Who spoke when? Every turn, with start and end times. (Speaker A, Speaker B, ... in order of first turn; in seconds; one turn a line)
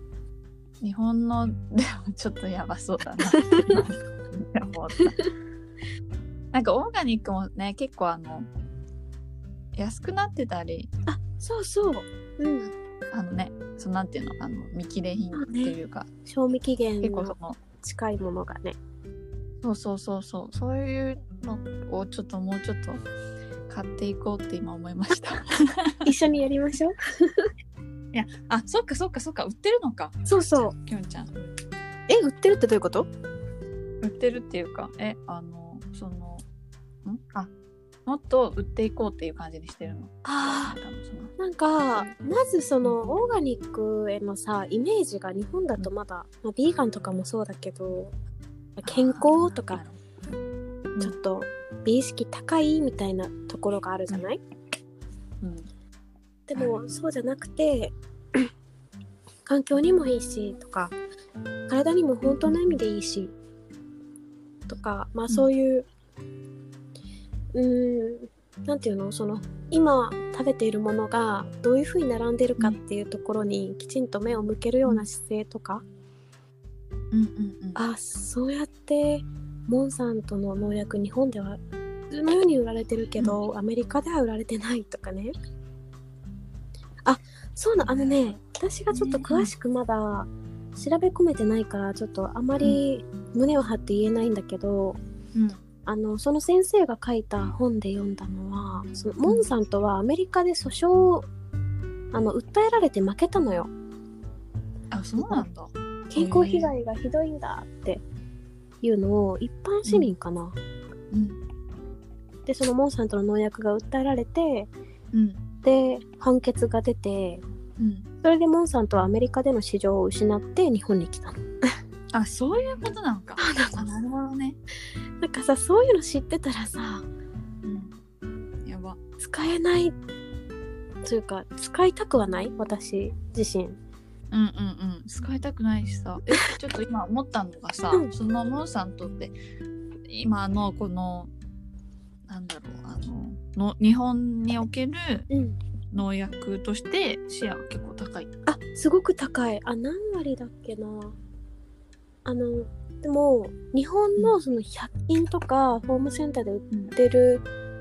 Speaker A: 0.8-5.2
Speaker B: 3.3-3.8
Speaker B: 5.0-5.3
Speaker A: 6.5-8.5
Speaker A: 9.8-10.9
Speaker B: 11.1-12.7
Speaker A: 13.1-16.1
Speaker B: 15.3-18.8
Speaker A: 17.0-17.6
Speaker A: 19.6-23.0
Speaker A: 23.7-26.1
Speaker B: 26.0-27.5
Speaker A: 28.1-31.5
Speaker B: 30.2-30.8
Speaker B: 32.1-33.1
Speaker A: 34.0-36.4
Speaker A: 37.0-37.5
Speaker A: 38.0-41.4
Speaker B: 40.2-40.8
Speaker B: 41.4-48.1
Speaker B: 48.8-49.8
Speaker A: 48.8-49.9
Speaker B: 51.0-54.4
Speaker A: 55.4-55.7
Speaker B: 56.5-58.5
Speaker B: 59.5-61.0
Speaker B: 61.7-63.3
Speaker B: 64.7-65.9
Speaker B: 67.5-75.8
Speaker A: 77.1-77.8
Speaker B: 77.7-85.3
Speaker B: 87.0-95.0
Speaker A: 87.8-88.3
Speaker A: 88.9-89.5
Speaker B: 95.8-101.3
Speaker B: 102.1-103.7
Speaker A: 104.9-106.7
Speaker B: 105.2-105.5
Speaker B: 106.1-108.0
Speaker B: 108.8-110.6
Speaker A: 109.8-110.1
Speaker A: 111.1-111.4
Speaker B: 112.5-114.7
Speaker A: 115.1-115.4
Speaker B: 115.6-117.4
Speaker A: 117.8-118.1
Speaker B: 118.2-121.5
Speaker A: 122.1-124.6
Speaker B: 123.4-123.9
Speaker B: 125.2-127.1
Speaker A: 127.6-128.0
Speaker A: 128.6-129.0
Speaker B: 129.2-129.9
Speaker B: 131.0-133.8
Speaker A: 134.3-139.3
Speaker A: 140.1-141.3
Speaker A: 142.3-145.3
Speaker B: 145.3-145.6
Speaker A: 145.9-148.3
Speaker B: 148.4-151.2
Speaker B: 152.2-157.4